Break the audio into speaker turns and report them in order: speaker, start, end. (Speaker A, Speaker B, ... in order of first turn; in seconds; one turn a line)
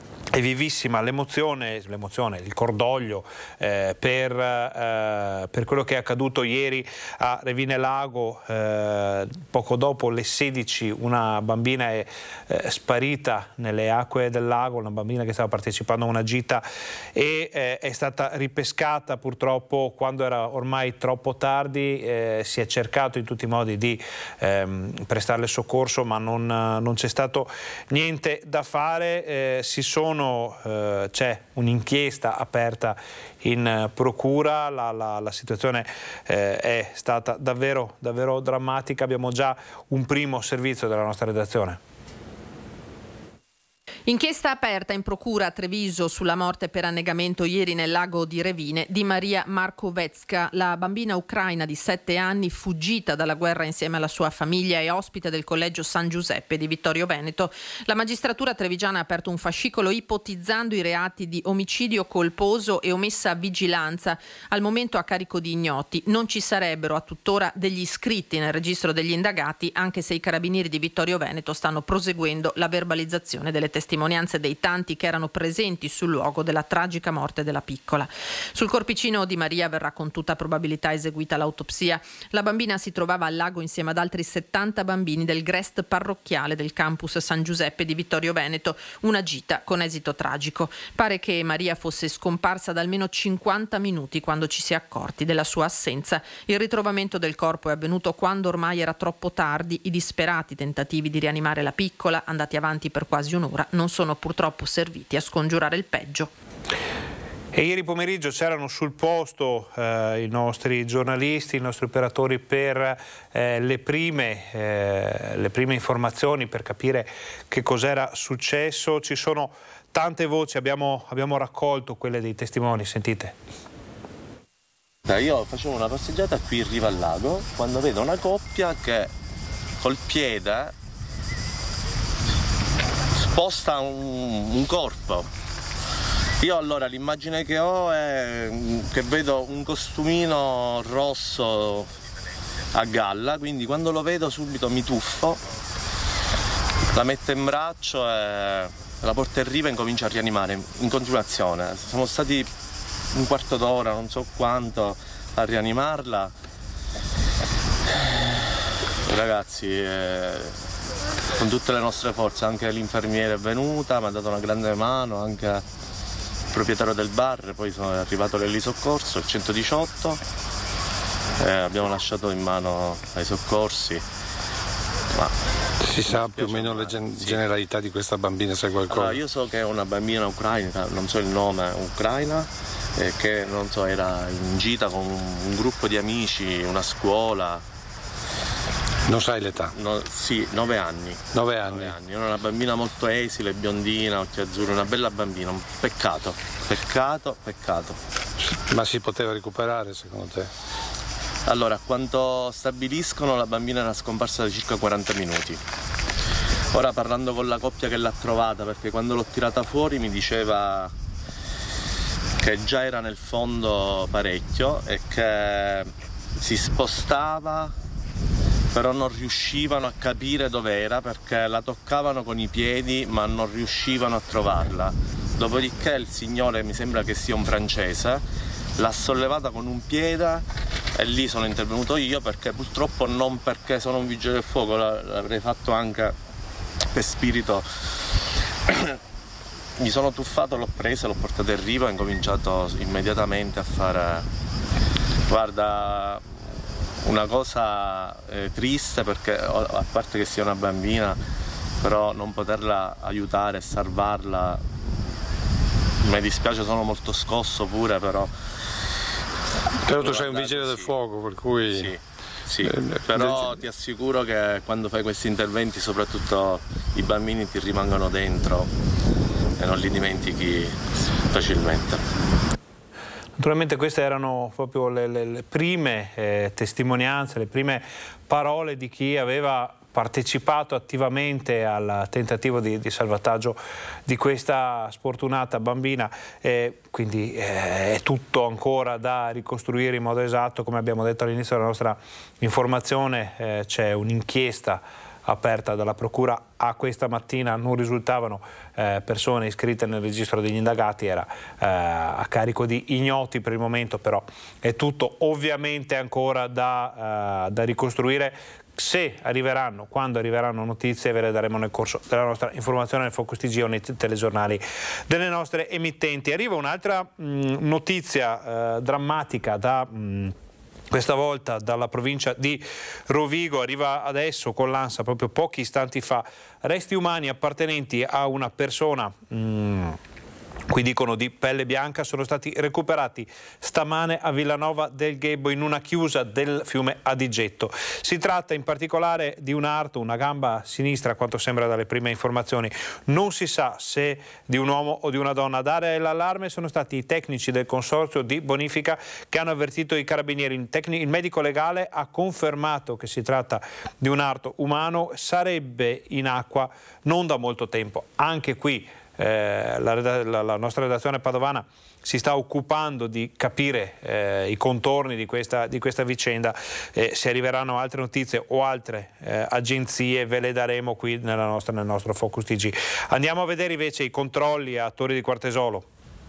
Speaker A: 0.3-16.6
Speaker A: 17.1-41.8
Speaker B: 44.1-106.3
Speaker A: 107.5-123.3
Speaker C: 125.0-129.1
Speaker C: 129.8-130.8
Speaker C: 133.1-135.3
Speaker C: 136.4-141.9
Speaker C: 142.7-145.4
Speaker C: 146.9-152.5
Speaker C: 153.1-156.3
Speaker C: 157.9-158.5
Speaker C: 159.1-160.6
Speaker C: 161.4-165.6
Speaker C: 166.5-170.2
Speaker C: 171.4-174.0
Speaker C: 175.1-175.4
Speaker D: 175.9-179.2
Speaker C: 176.0-177.5
Speaker C: 178.9-187.7
Speaker D: 189.1-189.7
Speaker C: 189.7-198.0
Speaker D: 191.3-191.9
Speaker D: 198.4-200.5
Speaker C: 201.5-205.6
Speaker C: 206.7-210.9
Speaker C: 212.4-217.8
Speaker C: 218.7-228.2
Speaker C: 228.8-236.2
Speaker C: 236.9-237.7
Speaker C: 238.7-239.0
Speaker C: 239.8-244.3
Speaker C: 245.3-246.4
Speaker C: 247.0-251.2
Speaker C: 251.8-255.0
Speaker C: 256.0-258.3
Speaker D: 259.9-261.9
Speaker C: 259.9-261.0
Speaker C: 261.7-268.7
Speaker D: 262.6-263.5
Speaker C: 269.6-272.0
Speaker A: 273.4-320.3
Speaker A: 320.9-330.0
Speaker A: 330.7-375.9